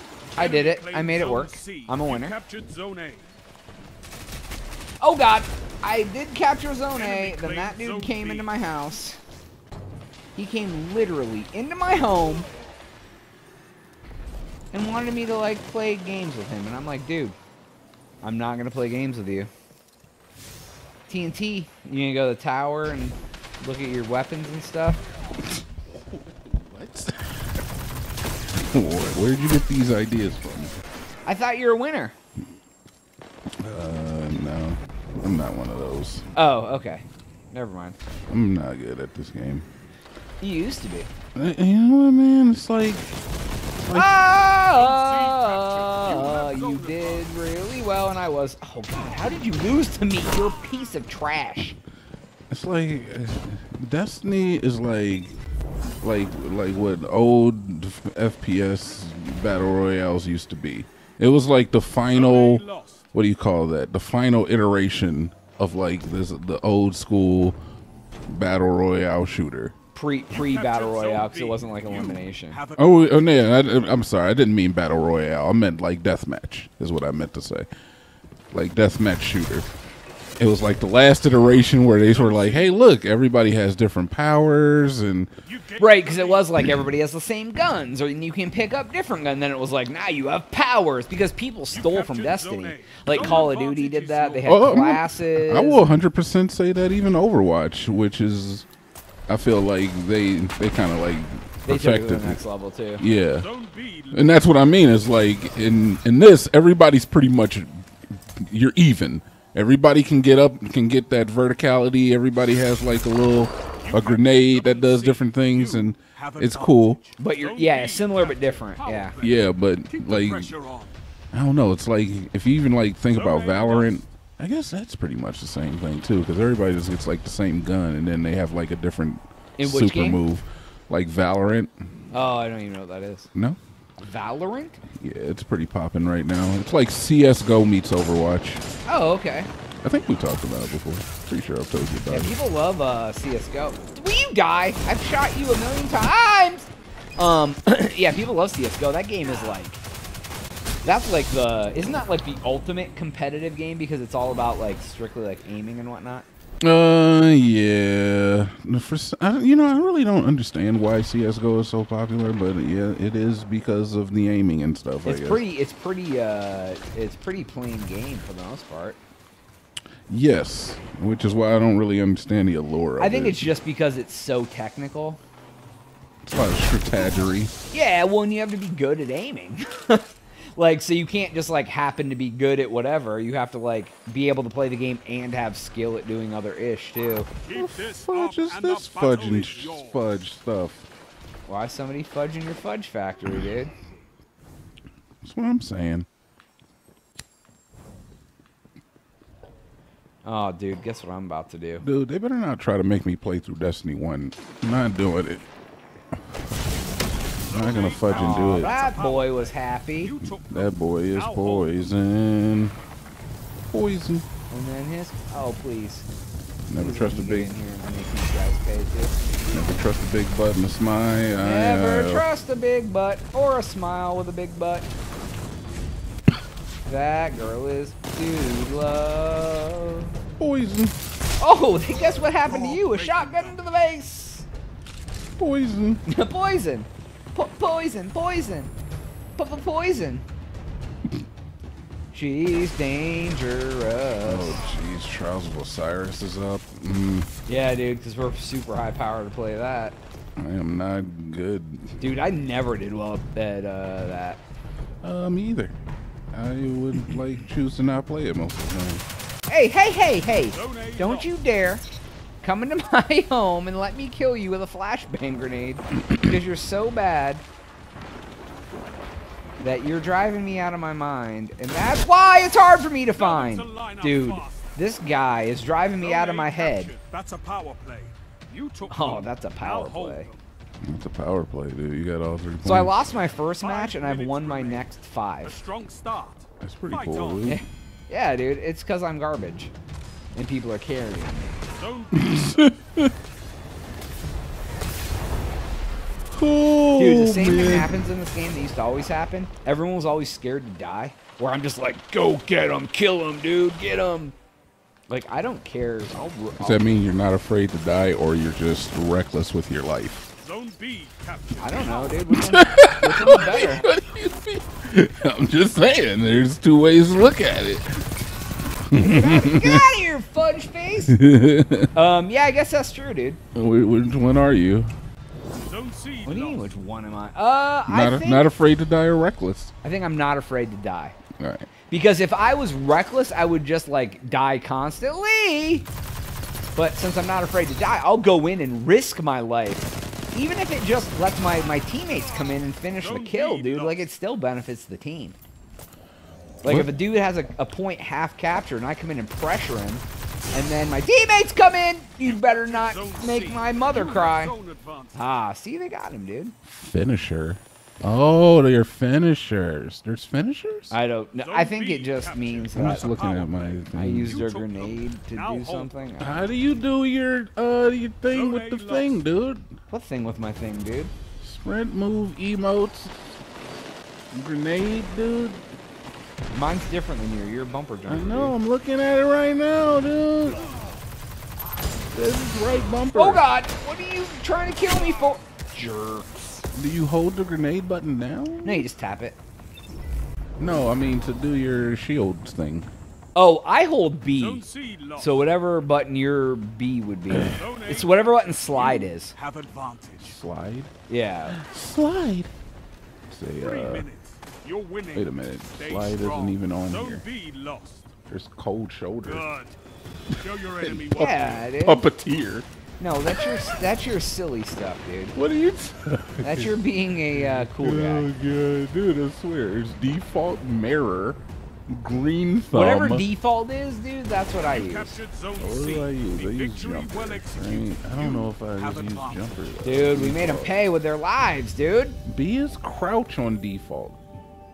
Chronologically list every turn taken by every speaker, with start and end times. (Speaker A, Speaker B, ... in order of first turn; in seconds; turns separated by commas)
Speaker A: 0.4-2.4, Speaker B: 0.4-3.3, Speaker A: 5.0-9.2, Speaker B: 6.9-8.5, Speaker A: 10.3-12.5, Speaker A: 14.7-17.4, Speaker A: 18.2-19.5, Speaker A: 21.1-25.0, Speaker C: 26.5-27.5, Speaker C: 28.5-30.8, Speaker A: 31.2-32.1, Speaker C: 33.6-36.3, Speaker A: 36.4-38.0, Speaker C: 38.3-39.7, Speaker A: 40.4-41.1, Speaker C: 41.4-43.1, Speaker C: 43.8-44.1, Speaker A: 43.9-51.8, Speaker B: 44.6-47.3, Speaker C: 52.5-55.4, Speaker C: 56.0-67.6, Speaker B: 62.1-63.1, Speaker C: 68.3-69.7, Speaker A: 69.9-72.6, Speaker B: 70.3-72.8, Speaker C: 72.8-77.7, Speaker C: 78.5-79.7, Speaker C: 80.4-85.3, Speaker B: 82.1-82.8, Speaker B: 85.5-86.5, Speaker A: 85.8-95.9, Speaker B: 91.7-94.5, Speaker C: 94.5-98.7, Speaker C: 99.3-102.4, Speaker A: 101.7-103.0, Speaker C: 103.0-103.5, Speaker B: 103.4-104.4, Speaker C: 104.1-117.0, Speaker B: 113.8-121.0, Speaker A: 117.2-119.2, Speaker C: 119.2-120.5, Speaker C: 121.3-131.7, Speaker B: 123.1-124.0, Speaker A: 129.6-130.2, Speaker A: 132.1-133.3, Speaker C: 133.3-133.6, Speaker A: 134.0-134.8, Speaker C: 135.0-138.6, Speaker A: 138.9-139.5, Speaker C: 139.8-142.3, Speaker A: 142.1-149.8, Speaker A: 150.8-156.3, Speaker C: 156.6-165.4, Speaker A: 165.1-169.0, Speaker C: 170.1-173.4, Speaker A: 173.0-175.2, Speaker C: 176.2-177.5, Speaker A: 177.7-187.3, Speaker B: 187.4-190.0, Speaker C: 187.5-190.9, Speaker A: 191.5-193.7, Speaker C: 195.2-196.1, Speaker A: 200.2-201.8, Speaker C: 201.8-205.4, Speaker B: 207.2-211.8, Speaker C: 207.5-208.7, Speaker A: 208.1-210.1, Speaker C: 210.5-212.7, Speaker C: 213.7-214.3, Speaker A: 214.5-216.1, Speaker C: 216.7-217.5, Speaker A: 216.7-219.2, Speaker C: 219.5-222.2, Speaker A: 221.3-224.9, Speaker A: 226.9-230.2, Speaker C: 230.4-231.0, Speaker A: 231.4-234.5, Speaker B: 232.3-233.6, Speaker C: 235.4-236.0, Speaker A: 236.1-238.7, Speaker A: 239.4-240.2, Speaker A: 242.1-244.6, Speaker C: 244.2-247.3, Speaker A: 247.5-250.0, Speaker C: 250.4-252.0, Speaker A: 252.0-254.4, Speaker C: 255.0-255.8, Speaker C: 256.3-259.0, Speaker A: 259.5-261.8, Speaker B: 260.5-261.3, Speaker A: 262.4-267.4, Speaker A: 269.6-276.9, Speaker B: 273.1-274.7, Speaker B: 276.0-280.4, Speaker A: 278.9-280.3, Speaker C: 280.8-283.0, Speaker A: 282.6-285.6, Speaker B: 283.6-284.9, Speaker B: 285.4-287.5, Speaker C: 286.6-287.6, Speaker A: 287.4-289.7, Speaker A: 290.4-291.6, Speaker B: 291.7-292.7, Speaker C: 292.1-293.1, Speaker C: 296.3-298.0, Speaker A: 297.0-304.4, Speaker A: 305.1-306.9, Speaker C: 306.6-310.3, Speaker B: 310.4-312.2, Speaker A: 311.6-313.9, Speaker C: 312.3-318.0, Speaker C: 318.9-319.9, Speaker A: 318.9-321.2, Speaker C: 321.1-321.9, Speaker A: 321.9-323.4, Speaker C: 323.6-324.9, Speaker B: 325.6-326.7, Speaker A: 326.2-328.5, Speaker C: 327.9-329.7, Speaker A: 329.8-331.2, Speaker C: 331.4-331.7, Speaker A: 331.9-335.9, Speaker A: 336.8-345.4, Speaker B: 342.9-344.1, Speaker A: 346.6-354.5, Speaker C: 346.6-346.9, Speaker B: 352.2-355.2, Speaker A: 355.1-356.6, Speaker C: 356.7-360.9, Speaker A: 360.9-363.3, Speaker B: 361.4-366.1, Speaker C: 362.7-364.4, Speaker A: 363.9-366.5, Speaker C: 366.2-369.7, Speaker B: 368.3-369.2, Speaker A: 369.9-371.1, Speaker C: 371.4-373.1, Speaker C: 374.3-375.7, Speaker A: 376.5-378.6, Speaker C: 378.1-380.8, Speaker C: 382.1-383.4, Speaker A: 383.1-386.6, Speaker C: 386.7-388.9, Speaker A: 388.6-389.4, Speaker C: 390.6-392.9, Speaker A: 393.4-394.6, Speaker B: 394.4-395.4, Speaker A: 395.2-399.3, Speaker C: 397.3-397.6, Speaker B: 397.5-400.4, Speaker C: 400.2-400.9, Speaker A: 401.1-401.6, Speaker C: 401.5-402.5, Speaker C: 403.3-404.1, Speaker B: 403.6-408.1, Speaker C: 405.1-407.2, Speaker C: 408.3-409.5, Speaker B: 409.2-409.8, Speaker C: 410.3-412.7, Speaker B: 410.4-411.7, Speaker A: 411.2-412.1, Speaker A: 413.0-415.4, Speaker C: 413.3-413.6, Speaker C: 415.4-423.3, Speaker A: 416.4-418.3, Speaker A: 422.7-425.2, Speaker B: 424.6-429.7, Speaker C: 425.6-430.8, Speaker A: 429.8-432.2, Speaker C: 432.3-434.2